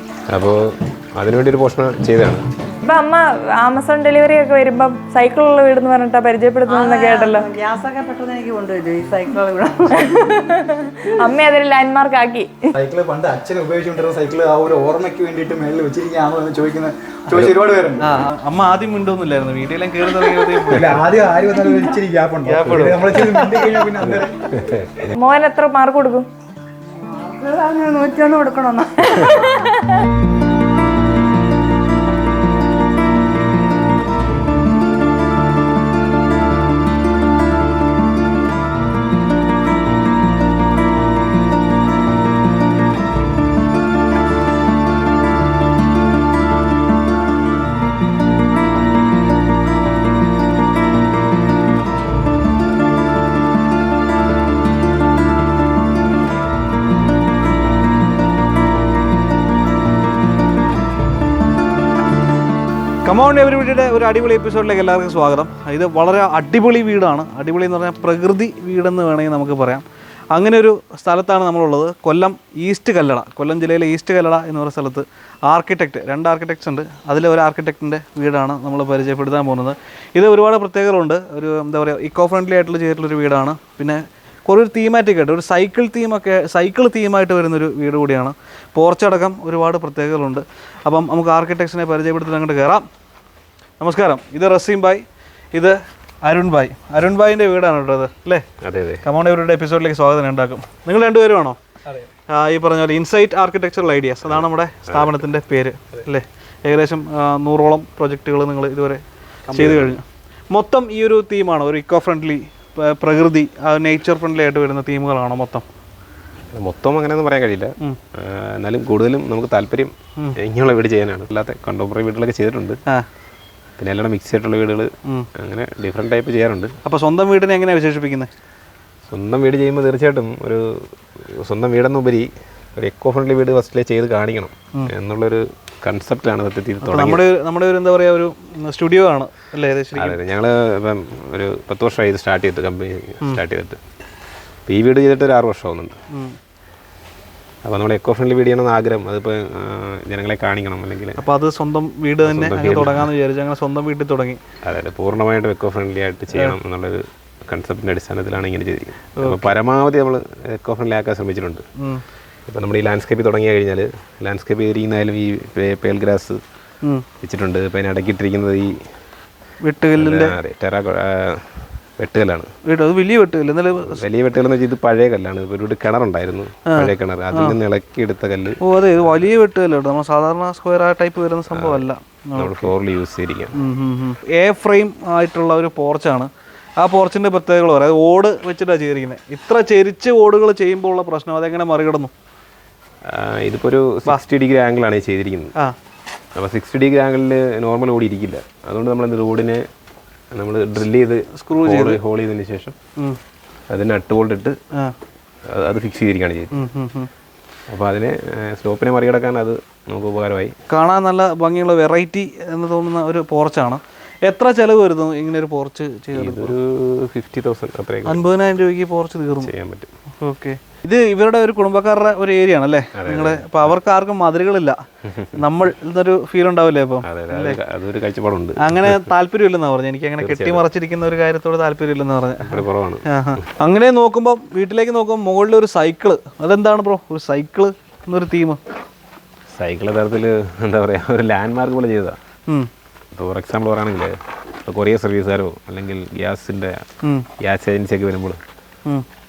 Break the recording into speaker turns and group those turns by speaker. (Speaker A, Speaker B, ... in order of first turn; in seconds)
Speaker A: 0.3-2.5, 24.0-25.2, 98.6-99.0, 104.3-105.2, 109.5-109.9, 116.5-122.8, 123.8-126.7, 129.1-137.2, 139.9-143.8, 144.7-146.0, 147.6-151.2, 152.2-153.1, 154.6-161.6, 162.5-166.4, 167.2-168.8, 170.0-172.5, 173.8-179.2, 181.5-183.6, 193.1-195.5, 196.3-199.7, 200.3-202.8, 203.7-204.6, 205.5-206.5, 207.7-210.5, 216.1-218.2, 219.4-219.9, 222.9-223.7, 225.0-225.4, 227.0-229.1, 230.2-230.6, 232.4-233.4, 239.5-242.2, 243.1-246.8, 247.4-248.4
Speaker B: 2.7-7.5, 10.0-12.7, 25.2-26.3
Speaker C: 6.7-10.5, 21.6-21.9, 26.9-29.7
Speaker D: 12.7-18.2, 20.7-24.5, 109.5-109.8
Speaker E: 18.0-21.1, 22.4-23.6, 63.0-92.8, 93.8-98.4, 99.0-101.6, 102.3-115.6, 126.8-128.3, 136.8-140.2, 146.1-146.4, 151.2-154.4, 159.2-159.5, 161.8-162.0, 169.6-170.3, 172.6-174.0, 176.7-177.6, 178.6-182.7, 183.6-192.1, 201.3-202.0, 206.5-207.1, 210.7-216.5, 218.1-219.5, 220.2-224.8, 225.3-227.6, 228.6-238.6